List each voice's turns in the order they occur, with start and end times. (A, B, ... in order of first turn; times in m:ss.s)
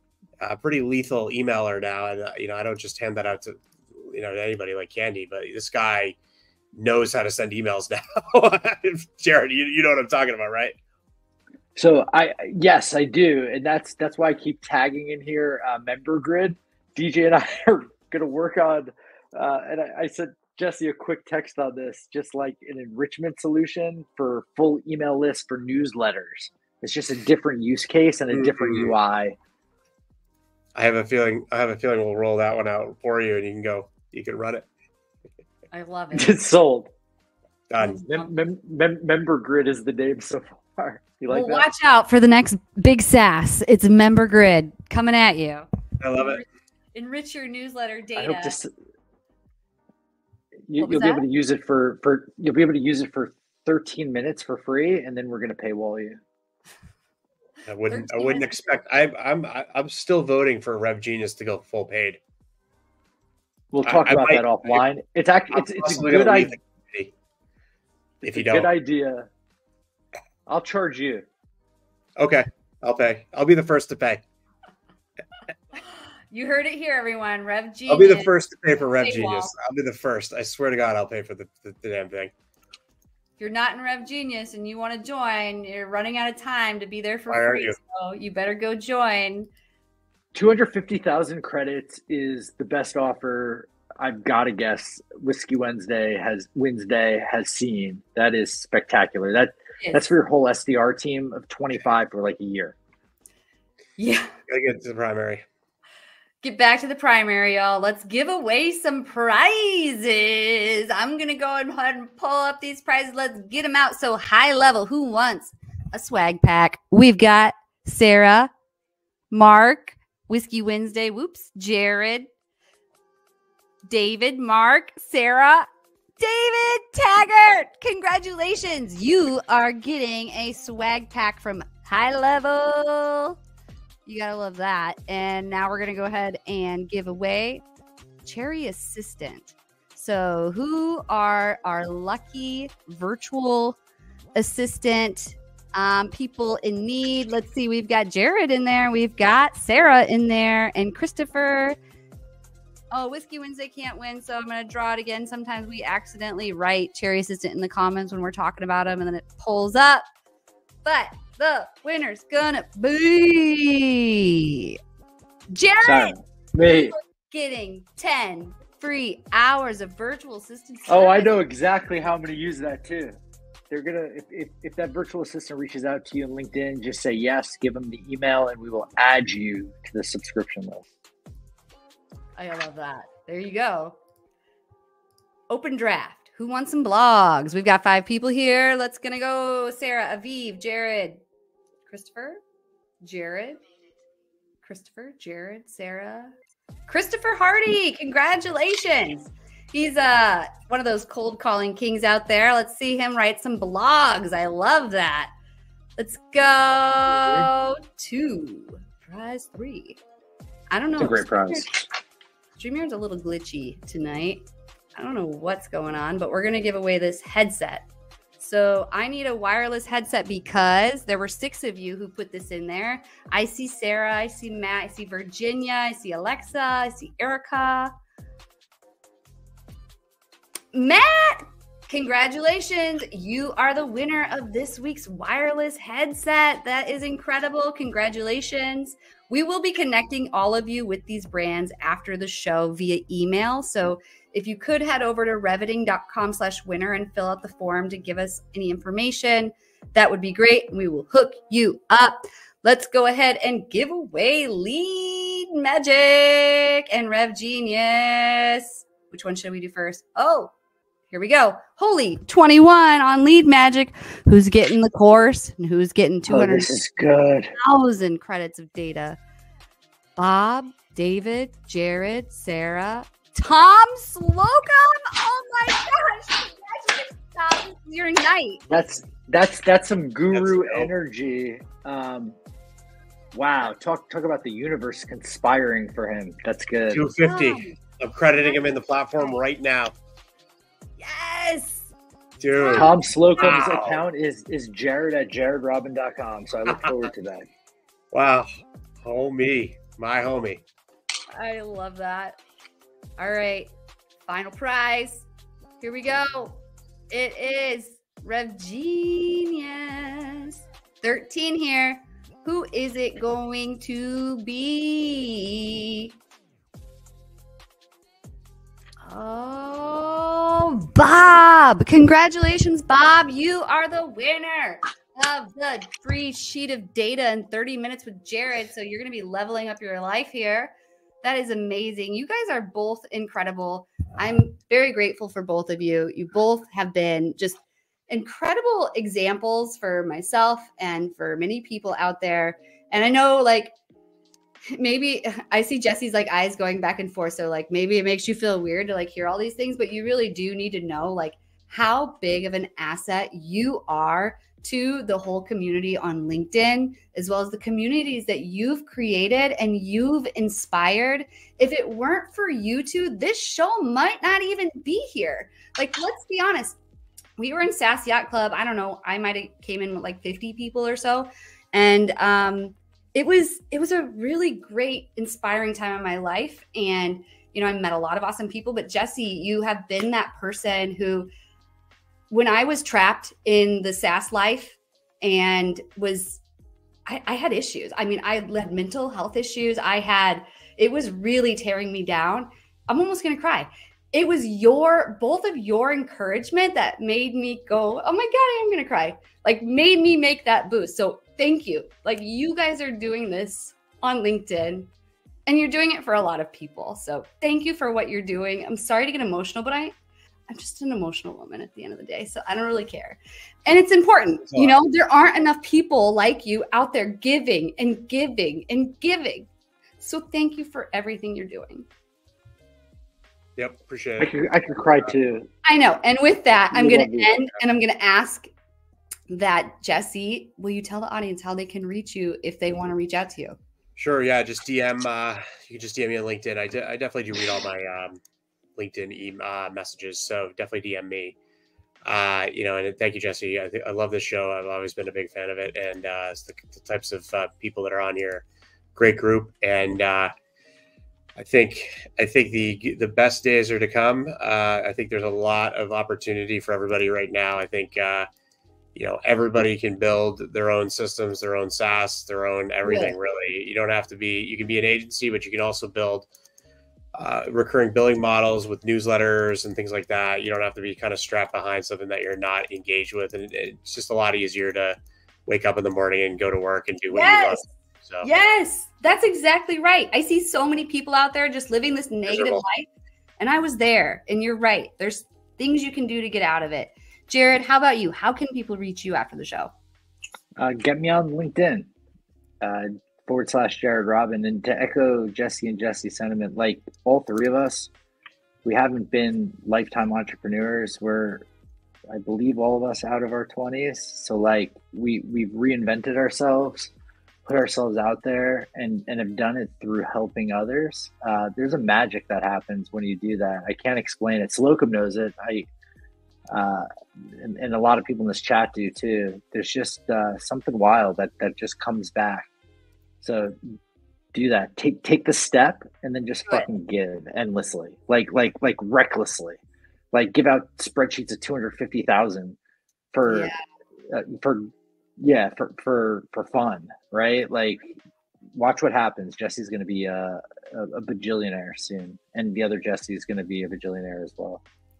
0:00.4-0:06.2 A
0:06.7-0:10.7 A
0:11.8-0:29.4 B
0:28.3-0:28.9 A
0:30.8-0:34.6 A
0:35.7-0:36.4 C
0:36.1-0:36.9 B
0:37.7-0:38.1 A
0:37.8-0:38.3 C
0:38.1-0:41.7 B
0:41.3-0:46.4 C
0:46.0-0:46.4 A
0:47.0-0:48.6 C
0:48.2-0:48.7 B
0:50.7-0:56.2 B
0:50.8-0:51.2 C
0:57.7-1:02.2 A
0:57.9-0:58.8 C
1:03.7-1:06.5 B
1:03.8-1:04.8 A
1:05.5-1:07.1 A
1:08.2-1:09.3 B
1:08.2-1:08.7 A
1:10.5-1:11.2 B
1:12.2-1:14.2 A
1:16.3-1:18.3 C
1:17.9-1:22.3 A
1:19.0-1:19.5 C
1:23.4-1:29.5 C
1:27.3-1:27.8 A
1:30.3-1:42.8 B
1:39.8-1:40.1 C
1:44.0-1:44.3 C
1:44.5-1:45.4 A
1:46.4-1:58.5 C
1:59.3-2:02.3 C
2:03.9-2:05.7 C
2:06.2-2:13.4 C
2:14.1-2:17.6 C
2:18.2-2:23.8 C
2:24.4-2:31.8 C
2:32.9-2:40.1 C
2:40.8-2:44.8 C
2:45.5-2:46.2 C
2:45.8-2:47.0 B
2:46.7-2:51.4 C
2:50.9-2:53.2 B
2:53.7-3:00.9 B
3:02.4-3:04.0 C
3:05.5-3:11.2 C
3:11.9-3:12.4 C
3:13.0-3:13.6 C
3:14.6-3:16.4 C
3:16.9-3:25.3 C
3:26.0-3:30.0 C
3:30.7-3:31.8 C
3:31.0-3:31.8 B
3:32.6-3:34.4 C
3:35.0-3:37.8 C
3:38.4-3:47.9 C
3:50.7-4:20.5 C
4:21.1-4:26.7 C
4:26.3-4:27.5 B
4:27.6-4:29.2 C
4:30.2-4:38.6 C
4:38.7-4:42.4 B
4:40.3-4:40.9 A
4:43.3-4:47.0 B
4:46.9-4:49.9 A
4:47.2-4:47.8 C
4:51.0-4:51.9 C
4:52.4-4:54.0 A
4:52.6-4:52.9 C
4:52.8-4:57.5 B
4:58.1-4:58.5 A
4:59.0-5:00.6 A
5:01.3-5:02.4 C
5:03.2-5:03.7 C
5:04.3-5:05.3 C
5:05.8-5:06.6 C
5:07.1-5:16.1 C
5:19.0-5:30.7 C
5:31.2-5:43.7 C
5:44.7-6:06.8 C
6:07.4-6:21.3 C
6:22.3-6:26.4 C
6:27.1-6:44.9 C
6:45.5-6:49.9 C
6:50.5-6:59.5 C
7:00.0-7:01.9 C
7:03.6-7:04.3 A
7:04.2-7:05.5 B
7:05.6-7:08.5 C
7:06.7-7:07.4 B
7:09.3-7:13.6 C
7:14.0-7:18.2 A
7:18.8-7:21.4 A
7:22.0-7:30.3 A
7:31.4-7:38.3 A
7:39.0-7:46.3 A
7:42.8-7:43.2 C
7:47.2-7:58.3 A
7:57.1-7:57.6 C
7:58.2-8:02.9 C
8:02.3-8:02.6 A
8:03.4-8:09.7 C
8:10.6-8:11.9 B
8:12.6-8:17.9 B
8:18.6-8:21.5 B
8:22.1-8:26.9 B
8:27.5-8:35.7 B
8:36.5-8:42.5 B
8:43.2-8:43.8 B
8:44.3-8:49.6 B
8:50.1-8:52.6 B
8:53.1-8:53.5 B
8:53.3-8:53.6 C
8:54.1-8:58.0 B
8:58.5-9:04.6 B